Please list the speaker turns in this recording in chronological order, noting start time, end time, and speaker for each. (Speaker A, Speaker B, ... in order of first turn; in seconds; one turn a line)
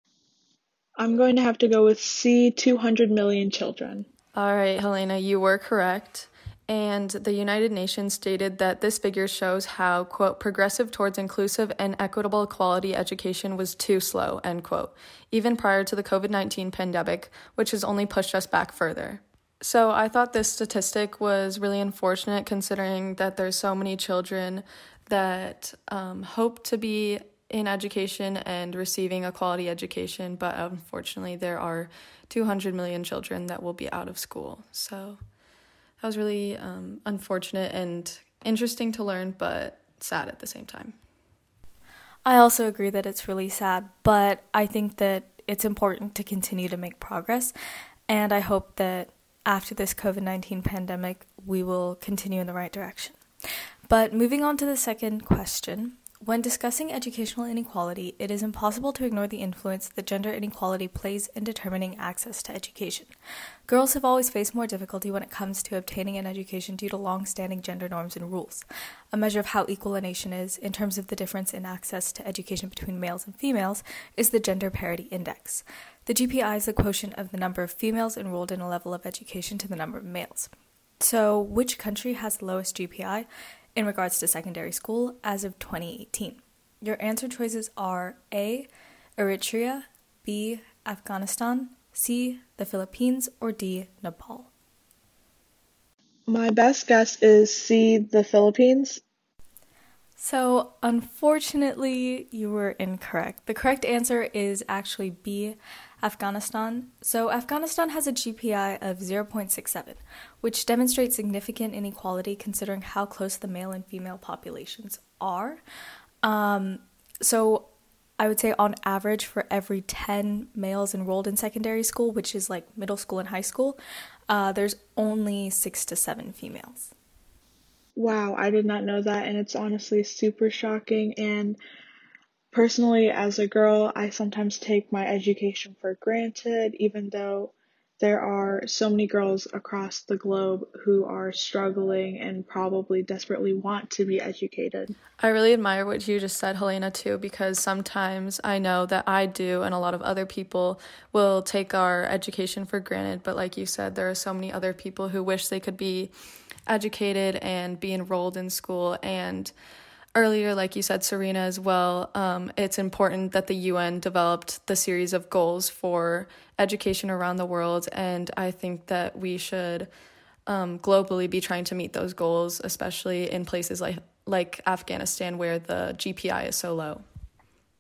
Speaker A: 1.0-4.1
Speaker B: 4.3-35.2
Speaker B: 36.0-41.0
Speaker C: 42.2-47.5
Speaker C: 48.1-53.3
Speaker C: 53.9-63.1
Speaker C: 63.7-94.5
Speaker A: 96.3-99.0
Speaker C: 100.2-115.6
Speaker C: 116.2-126.9
Speaker A: 128.0-131.6
Speaker A: 132.5-144.9
Speaker B: 145.2-156.1
Speaker B: 156.7-159.5
Speaker B: 160.2-169.9
Speaker B: 170.5-177.1